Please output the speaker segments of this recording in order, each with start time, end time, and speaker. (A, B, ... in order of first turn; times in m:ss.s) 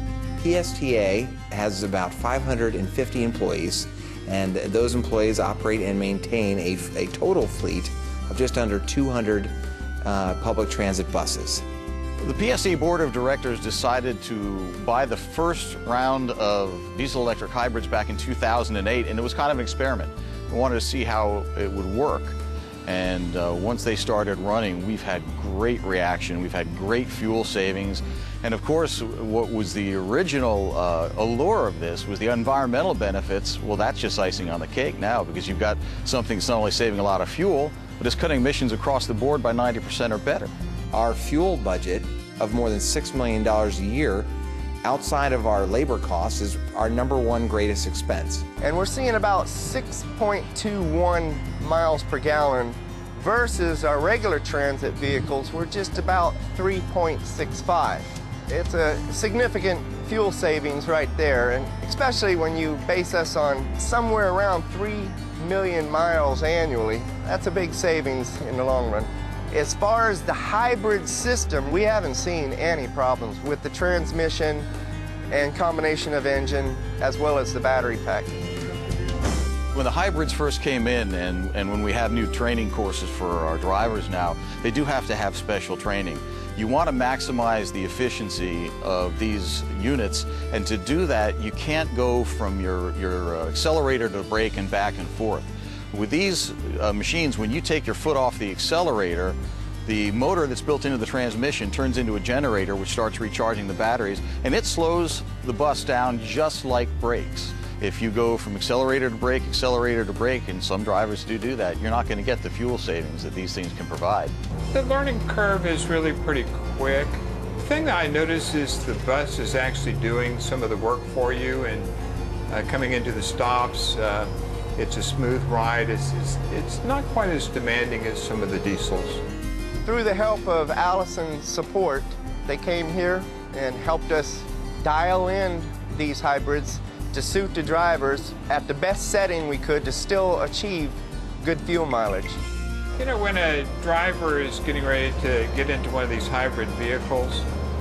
0:00.4-0:11.6 A
0:12.2-0:40.5 B
0:40.9-0:44.3 A
0:44.8-0:48.4 A
0:48.6-1:14.7 C
1:15.3-1:18.4 C
1:19.7-1:54.3 B
1:54.7-2:01.9 D
2:02.5-2:09.2 D
2:09.8-2:22.4 C
2:23.0-2:27.5 D